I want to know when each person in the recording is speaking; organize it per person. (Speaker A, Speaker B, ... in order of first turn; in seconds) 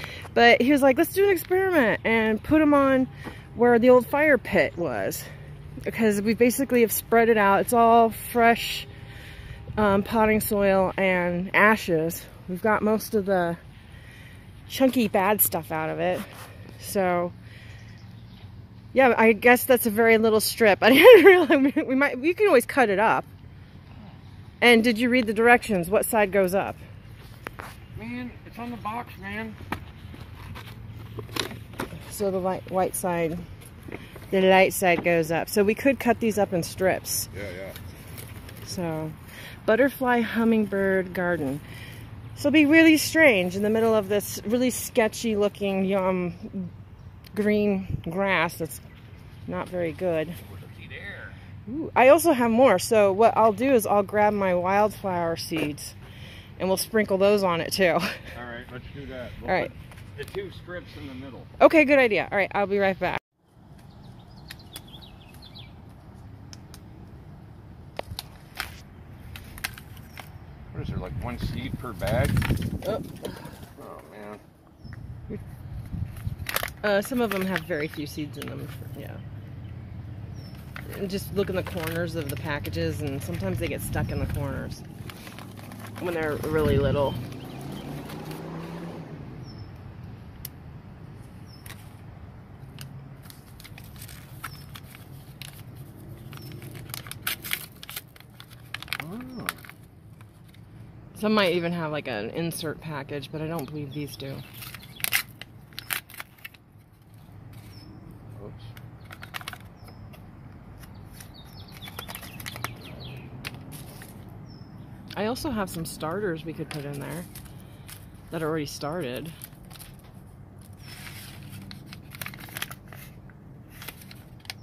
Speaker A: 0.3-5.3, 5.8-8.9, 9.8-13.6, 14.7-17.3, 18.9-23.3, 24.6-26.8, 32.1-33.5, 34.3-37.3, 38.7-41.6, 42.4-46.7, 47.3-48.8, 49.5-50.4, 51.7-56.0, 56.6-58.2, 59.4-59.7, 61.6-63.2, 72.8-73.5, 76.8-79.2, 80.8-84.8, 86.0-87.2, 101.2-104.5, 115.1-117.3, 118.3-119.3
Speaker B: 27.9-29.6, 37.3-37.8, 50.5-51.4, 58.3-61.5, 70.7-72.4, 73.8-74.4, 99.0-99.6, 108.4-108.7